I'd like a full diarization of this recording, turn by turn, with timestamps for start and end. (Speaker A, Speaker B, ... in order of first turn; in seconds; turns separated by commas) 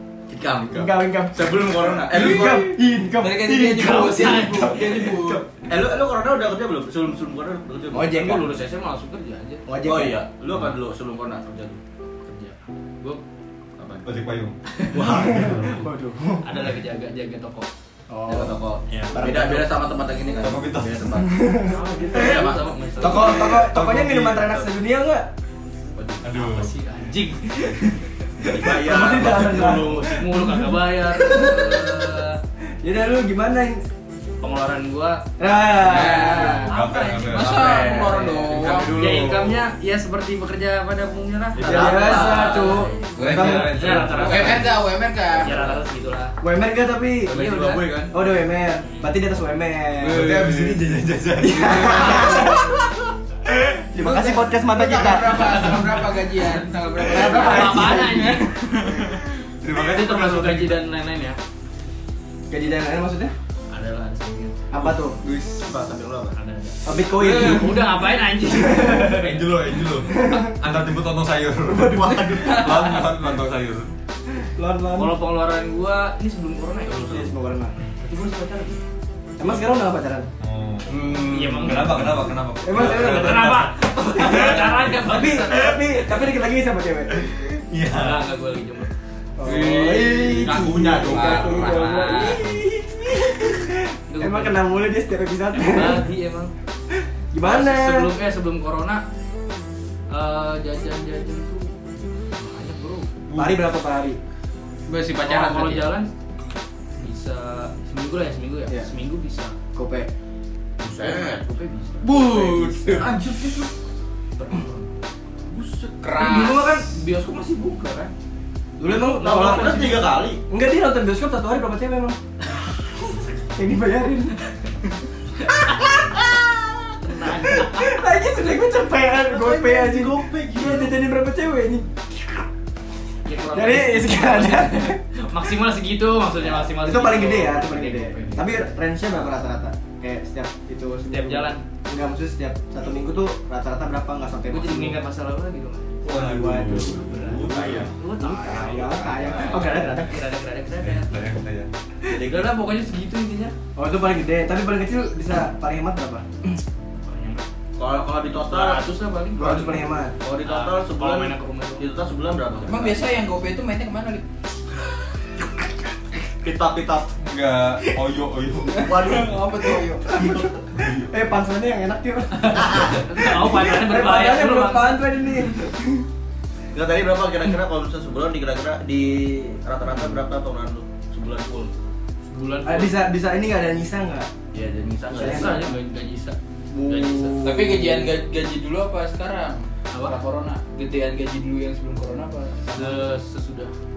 Speaker A: 0.3-2.7, Speaker B: 0.7-5.5, Speaker C: 2.1-5.4, Speaker D: 3.7-5.2, Speaker A: 5.7-8.4, Speaker B: 7.9-8.5, Speaker D: 8.1-9.6, Speaker B: 9.7-10.2, Speaker A: 9.8-11.8, Speaker D: 12.2-13.2, Speaker A: 13.8-14.1, Speaker E: 14.0-15.8, Speaker D: 14.7-15.7, Speaker A: 14.9-15.6, Speaker B: 15.0-16.5, Speaker D: 16.4-17.7, Speaker B: 18.1-18.6, Speaker A: 18.3-21.6, Speaker D: 18.9-19.1, Speaker B: 19.1-19.8, Speaker E: 20.4-21.1, Speaker B: 21.3-22.5, Speaker D: 21.6-23.6, Speaker A: 22.1-23.4, Speaker B: 23.0-25.3, Speaker E: 23.4-24.6, Speaker A: 25.9-26.2, Speaker E: 26.2-26.7, Speaker D: 26.2-28.5, Speaker B: 28.4-31.9, Speaker A: 28.4-30.3, Speaker D: 29.7-32.4, Speaker B: 32.8-33.8, Speaker D: 34.4-35.3, Speaker B: 35.4-36.7, Speaker D: 35.8-38.1, Speaker C: 35.8-36.7, Speaker E: 36.6-37.8, Speaker C: 37.3-39.0, Speaker A: 37.3-39.4, Speaker B: 37.8-38.6, Speaker E: 38.5-39.6, Speaker D: 38.9-44.8, Speaker A: 41.6-42.9, Speaker B: 41.6-44.7, Speaker E: 43.1-44.4, Speaker C: 43.4-45.8, Speaker A: 44.2-45.7, Speaker D: 45.4-46.4, Speaker B: 46.4-47.4, Speaker D: 47.3-48.0, Speaker A: 47.3-48.1, Speaker B: 48.1-50.3, Speaker D: 48.8-49.2, Speaker C: 50.0-50.8, Speaker E: 50.0-52.8, Speaker B: 51.4-52.8, Speaker C: 51.8-52.3, Speaker B: 53.7-55.8, Speaker C: 54.0-59.2, Speaker B: 57.0-58.4, Speaker D: 57.0-58.6, Speaker E: 59.1-60.8, Speaker D: 59.7-61.4, Speaker B: 62.5-63.3, Speaker D: 63.7-64.6, Speaker B: 64.7-65.2, Speaker E: 64.8-65.7, Speaker A: 65.6-66.3, Speaker D: 66.3-69.7, Speaker B: 66.8-67.9, Speaker C: 67.2-67.6, Speaker B: 68.5-69.0, Speaker E: 69.0-73.9, Speaker B: 70.1-70.5, Speaker B: 71.7-72.4, Speaker D: 72.3-73.1, Speaker B: 74.4-75.2, Speaker D: 74.9-77.1, Speaker A: 76.9-77.3, Speaker B: 77.0-77.7, Speaker D: 78.0-78.8, Speaker B: 79.4-80.3, Speaker E: 80.4-85.2, Speaker A: 80.9-82.1, Speaker D: 81.3-86.2, Speaker B: 82.6-87.3, Speaker E: 87.1-88.3, Speaker D: 87.9-88.9, Speaker B: 89.4-96.0, Speaker C: 89.4-91.5, Speaker A: 90.2-91.8, Speaker D: 90.4-92.4, Speaker D: 94.1-94.7, Speaker D: 95.5-96.5, Speaker B: 97.3-98.1, Speaker D: 97.4-99.0, Speaker D: 100.1-101.8, Speaker D: 102.3-103.1, Speaker E: 103.3-103.6, Speaker B: 103.3-104.2, Speaker C: 104.9-105.9, Speaker D: 105.2-106.1, Speaker D: 107.0-109.6, Speaker B: 109.7-110.1, Speaker A: 110.8-111.5, Speaker D: 110.9-112.7, Speaker C: 112.0-113.1, Speaker B: 112.4-113.0, Speaker A: 112.9-113.7, Speaker D: 114.3-114.9, Speaker A: 115.5-115.9, Speaker C: 116.0-116.7, Speaker D: 116.1-118.1, Speaker B: 118.8-122.2, Speaker D: 118.8-120.1, Speaker A: 118.9-120.4, Speaker D: 123.0-123.5, Speaker B: 123.5-124.3, Speaker D: 125.4-126.0, Speaker D: 127.0-128.0, Speaker B: 127.3-132.4, Speaker A: 129.3-131.0, Speaker D: 133.2-138.6, Speaker B: 133.5-135.0, Speaker B: 136.4-145.0, Speaker D: 141.1-141.6, Speaker D: 144.5-146.2, Speaker E: 146.0-147.9, Speaker B: 146.0-150.2, Speaker A: 146.6-149.7, Speaker D: 147.1-147.4, Speaker D: 147.9-151.2, Speaker E: 150.8-151.7, Speaker D: 152.1-153.5, Speaker A: 152.1-152.6, Speaker B: 153.8-156.6, Speaker D: 157.0-157.4, Speaker A: 157.8-158.8, Speaker D: 158.4-161.9, Speaker B: 159.3-160.1, Speaker A: 160.2-163.1, Speaker C: 162.6-164.2, Speaker A: 166.4-167.1, Speaker E: 167.1-169.3, Speaker A: 168.8-169.4, Speaker C: 168.8-170.2, Speaker B: 170.1-170.5, Speaker A: 170.2-170.5, Speaker E: 170.7-171.1, Speaker B: 171.1-176.1, Speaker D: 172.3-175.1, Speaker A: 176.7-181.7, Speaker D: 182.2-183.0, Speaker B: 182.6-184.3, Speaker A: 184.5-185.7, Speaker B: 185.1-185.7, Speaker D: 185.1-187.4, Speaker B: 186.7-188.1, Speaker C: 187.4-193.0, Speaker D: 189.9-190.2, Speaker D: 192.7-193.7